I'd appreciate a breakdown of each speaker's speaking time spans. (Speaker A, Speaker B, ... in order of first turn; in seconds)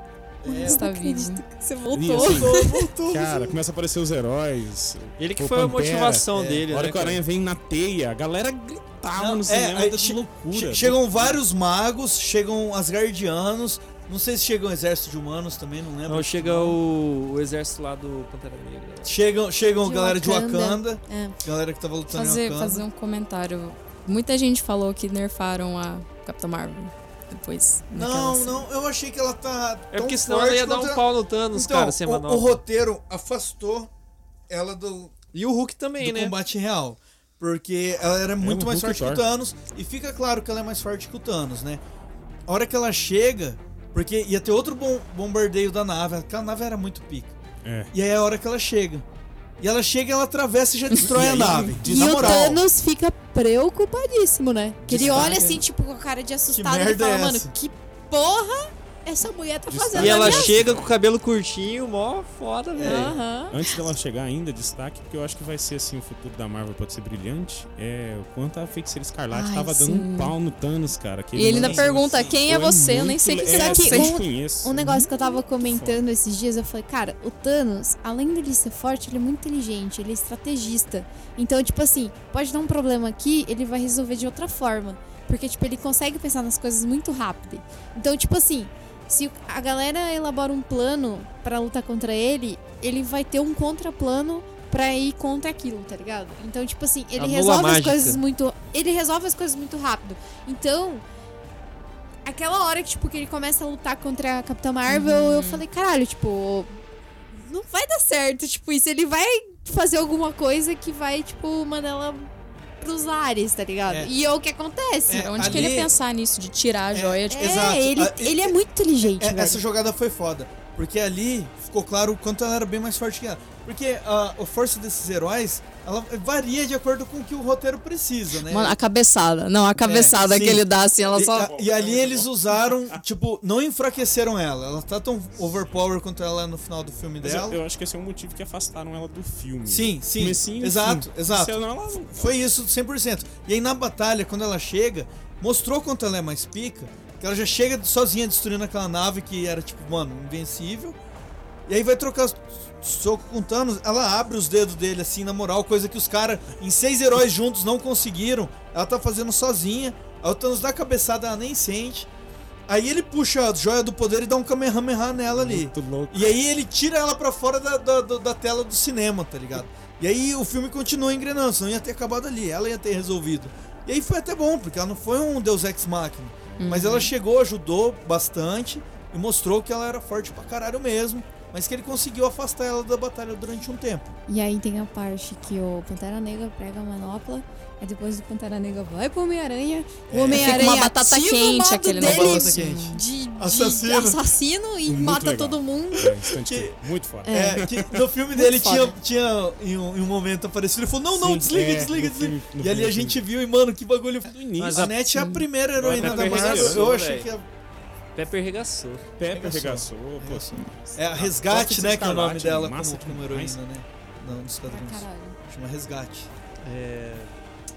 Speaker A: 0.4-0.8, 2.1-3.6, 6.3-6.7, 9.1-16.8, 19.0-22.8, 27.9-33.9, 34.5-35.1, 36.0-41.8, 42.5-47.4, 47.9-49.0, 49.6-52.6, 54.9-55.6, 56.5-57.5, 62.7-63.2, 71.5-72.4, 113.8-114.1, 115.1-115.9, 116.9-128.8, 129.8-137.6, 139.7-141.6, 142.1-151.0, 151.7-162.1, 162.7-184.1, 190.1-190.8, 192.0-194.2, 196.0-207.5, 209.3-216.3
Speaker B: 0.4-2.9, 19.8-21.3, 51.8-60.6, 62.8-63.8, 69.3-69.9, 73.4-101.0, 102.2-106.8, 107.3-115.5, 117.3-119.6, 184.3-196.2, 197.2-197.7, 198.3-198.9, 214.7-215.4
Speaker C: 0.6-1.4, 22.1-28.6, 69.8-70.3, 71.3-74.2, 104.9-105.6, 115.1-117.7, 128.4-131.5, 176.6-177.1, 190.3-193.0
Speaker D: 1.9-11.2, 38.4-39.2, 47.6-47.9, 50.9-52.6, 54.9-55.5, 59.7-60.9, 63.5-76.0, 131.1-133.0, 137.2-142.4, 165.3-166.3, 194.8-198.0, 201.1-203.2, 204.3-204.9, 205.8-206.9, 209.2-213.6
Speaker E: 5.2-7.2, 16.1-19.1, 29.9-32.6, 35.3-36.3, 59.9-63.2, 97.2-98.2, 204.6-204.9, 205.8-207.3, 208.1-209.1, 216.6-217.3